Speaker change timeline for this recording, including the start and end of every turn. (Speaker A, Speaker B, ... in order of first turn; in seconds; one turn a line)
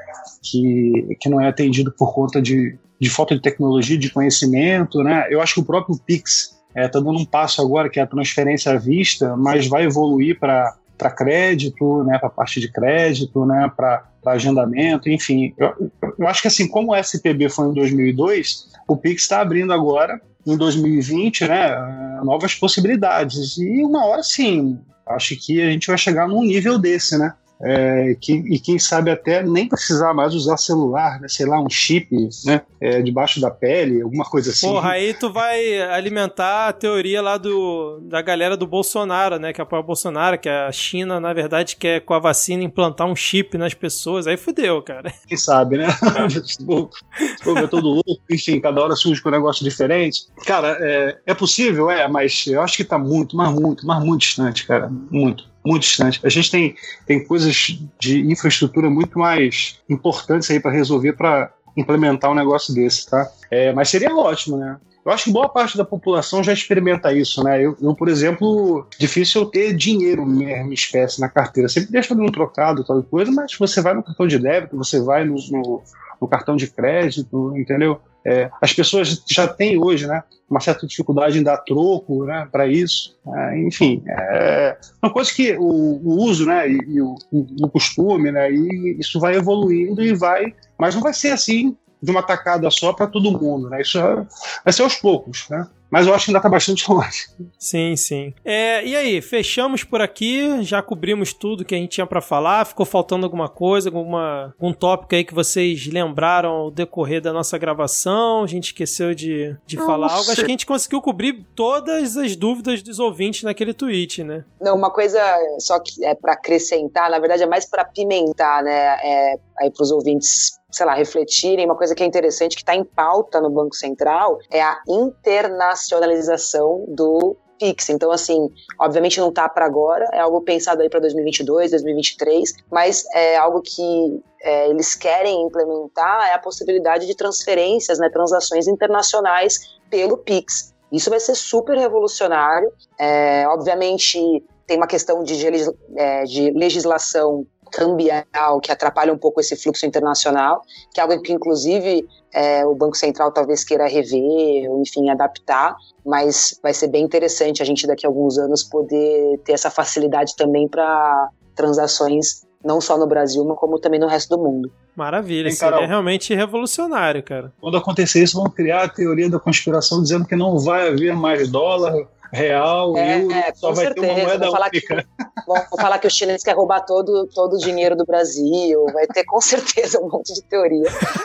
Speaker A: 0.4-35.0
Speaker B: 34.6-45.1
Speaker A: 45.3-97.3
Speaker B: 47.3-47.7
Speaker B: 97.6-114.5
Speaker A: 109.8-110.5
Speaker C: 114.6-164.7
Speaker B: 164.9-167.5
Speaker A: 165.4-165.9
Speaker A: 167.6-175.0
Speaker C: 172.9-181.0